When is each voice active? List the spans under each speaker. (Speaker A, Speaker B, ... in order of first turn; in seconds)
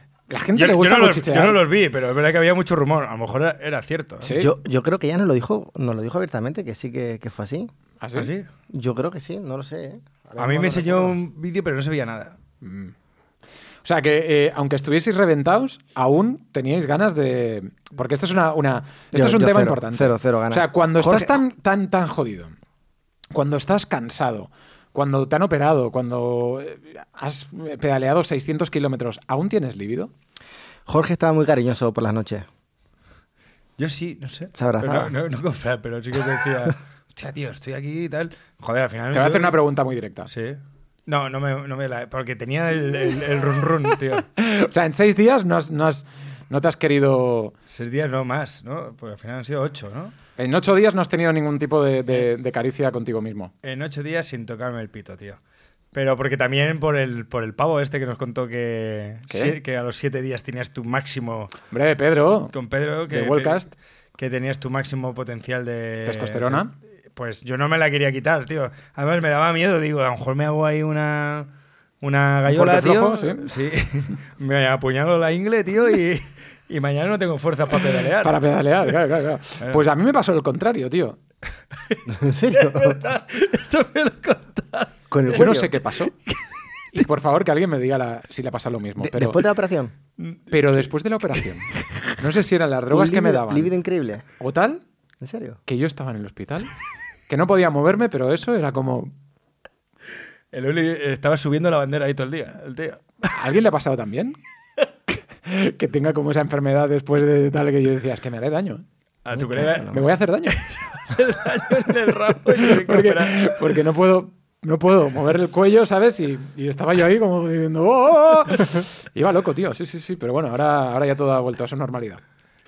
Speaker A: 0.3-1.6, 4.2-4.5, 8.0-8.3, 12.6-12.9, 13.8-22.6, 23.3-30.1, 39.1-40.3, 44.4-47.5, 50.4-53.5, 59.3-59.6, 61.7-62.5, 63.1-63.7, 66.0-66.7, 72.5-73.5, 78.2-81.2, 85.3-86.1, 86.9-89.4, 90.5-93.7, 94.4-94.8, 95.7-96.7, 97.3-99.1, 103.3-104.4, 105.4-108.8, 109.9-110.7, 112.6-122.2
Speaker B: 0.6-4.3, 8.2-8.5, 10.4-12.4, 33.8-39.6, 40.3-44.3, 47.7-50.1, 53.6-55.4, 55.9-61.5, 62.5-63.6, 64.2-71.5, 72.0-78.4, 81.9-85.0, 90.2-90.8, 100.5-103.0, 109.2-113.6
Speaker C: 4.3-7.7, 8.7-11.2, 19.1-21.4, 30.9-32.5, 34.5-35.1, 82.1-83.0, 85.1-85.7, 89.0-89.9, 92.9-94.2, 95.2-95.6, 109.4-110.0